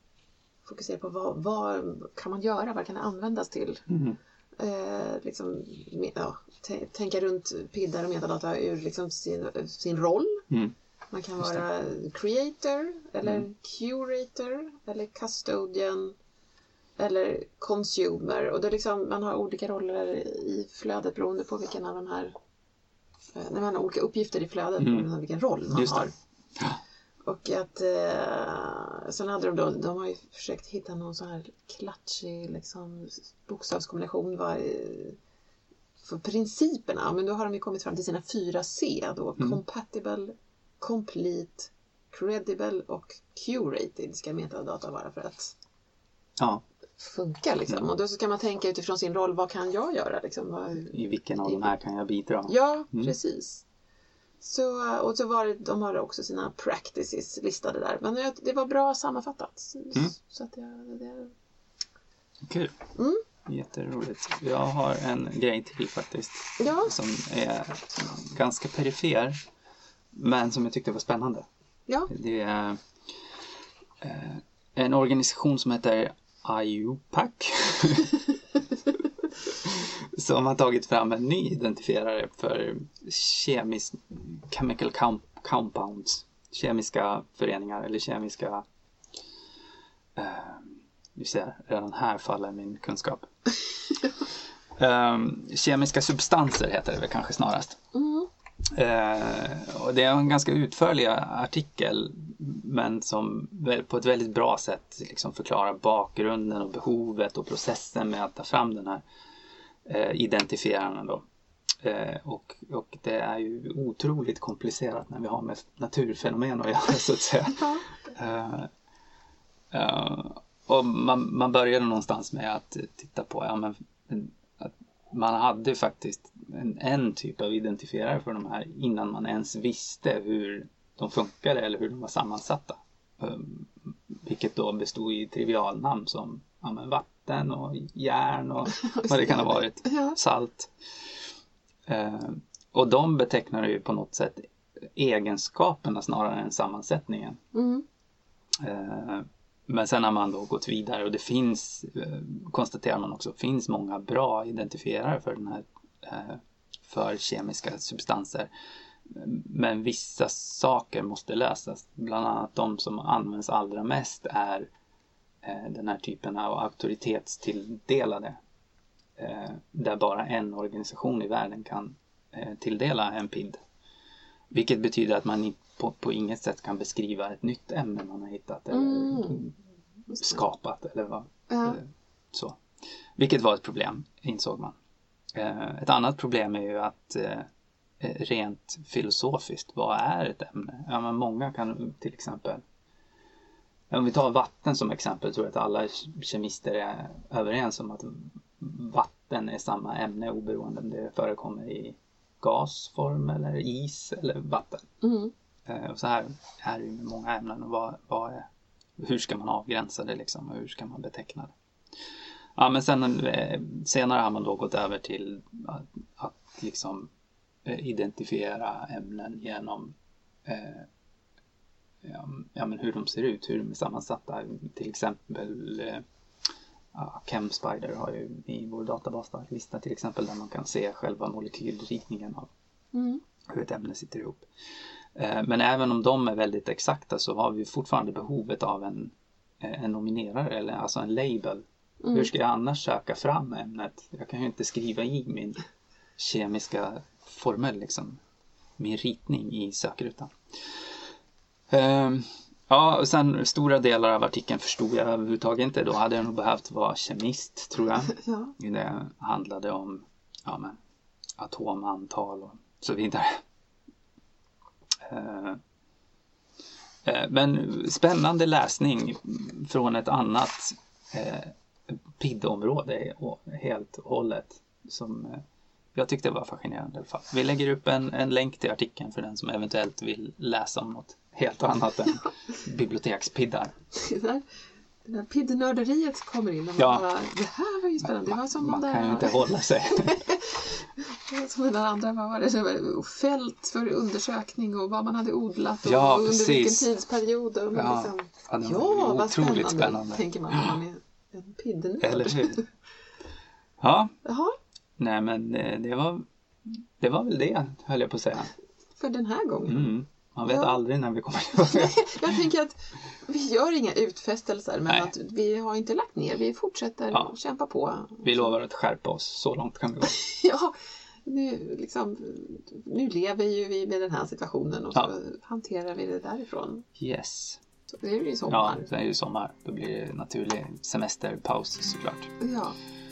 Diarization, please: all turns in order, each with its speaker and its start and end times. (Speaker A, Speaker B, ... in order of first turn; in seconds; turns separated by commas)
Speaker A: 0.7-3.9, Speaker B: 3.9-4.2, Speaker A: 4.6-10.4, Speaker A: 11.1-16.1, Speaker A: 17.0-22.4, Speaker A: 23.3-26.1, Speaker B: 24.8-25.1, Speaker B: 25.7-26.8, Speaker A: 27.2-35.2, Speaker A: 36.0-45.5, Speaker B: 46.4-46.6, Speaker A: 47.0-51.7, Speaker B: 50.9-53.1, Speaker A: 52.5-53.6, Speaker A: 54.4-61.3, Speaker B: 62.4-62.7, Speaker A: 63.0-63.2, Speaker B: 63.5-69.4, Speaker A: 66.6-66.9, Speaker B: 70.2-71.5, Speaker B: 72.1-72.8, Speaker B: 74.0-78.2, Speaker B: 79.4-88.6, Speaker B: 90.2-93.3, Speaker B: 94.8-97.8, Speaker A: 97.9-98.3, Speaker B: 98.7-109.0, Speaker B: 109.8-111.2, Speaker B: 111.8-118.7, Speaker A: 117.6-117.8, Speaker B: 119.7-140.7, Speaker A: 138.7-140.2, Speaker B: 141.9-147.4, Speaker A: 147.5-147.8, Speaker B: 148.6-158.5, Speaker B: 159.1-164.7, Speaker B: 165.4-168.4, Speaker B: 169.2-173.6, Speaker B: 174.5-179.5, Speaker A: 178.7-179.4, Speaker A: 180.1-180.4, Speaker B: 180.1-182.6, Speaker A: 181.5-181.8, Speaker B: 183.2-184.8, Speaker B: 185.3-187.5, Speaker B: 188.0-192.6, Speaker B: 193.9-204.9, Speaker A: 205.0-205.3, Speaker B: 205.7-211.5, Speaker B: 212.6-217.1, Speaker B: 217.7-220.9, Speaker B: 222.0-226.0, Speaker B: 226.9-232.5, Speaker A: 232.9-233.2, Speaker B: 233.5-234.5, Speaker B: 235.2-245.6, Speaker A: 242.0-242.3, Speaker B: 246.2-248.2, Speaker B: 248.8-250.9, Speaker B: 251.7-260.8, Speaker A: 258.1-258.5, Speaker B: 261.4-263.4, Speaker B: 265.0-265.6, Speaker B: 267.1-275.4, Speaker B: 275.9-283.7, Speaker A: 283.9-284.4, Speaker A: 285.1-302.7, Speaker B: 286.8-287.1, Speaker B: 288.0-290.2, Speaker B: 295.9-296.9, Speaker B: 297.7-300.7, Speaker B: 302.0-302.6, Speaker B: 303.8-304.1, Speaker A: 304.2-304.6, Speaker B: 305.0-308.5, Speaker A: 309.0-309.9, Speaker B: 309.7-312.4, Speaker A: 310.5-310.8, Speaker A: 311.6-318.6, Speaker B: 318.2-320.2, Speaker A: 320.1-326.9, Speaker B: 327.0-327.6, Speaker A: 327.9-328.9, Speaker B: 328.5-332.3, Speaker A: 332.4-332.8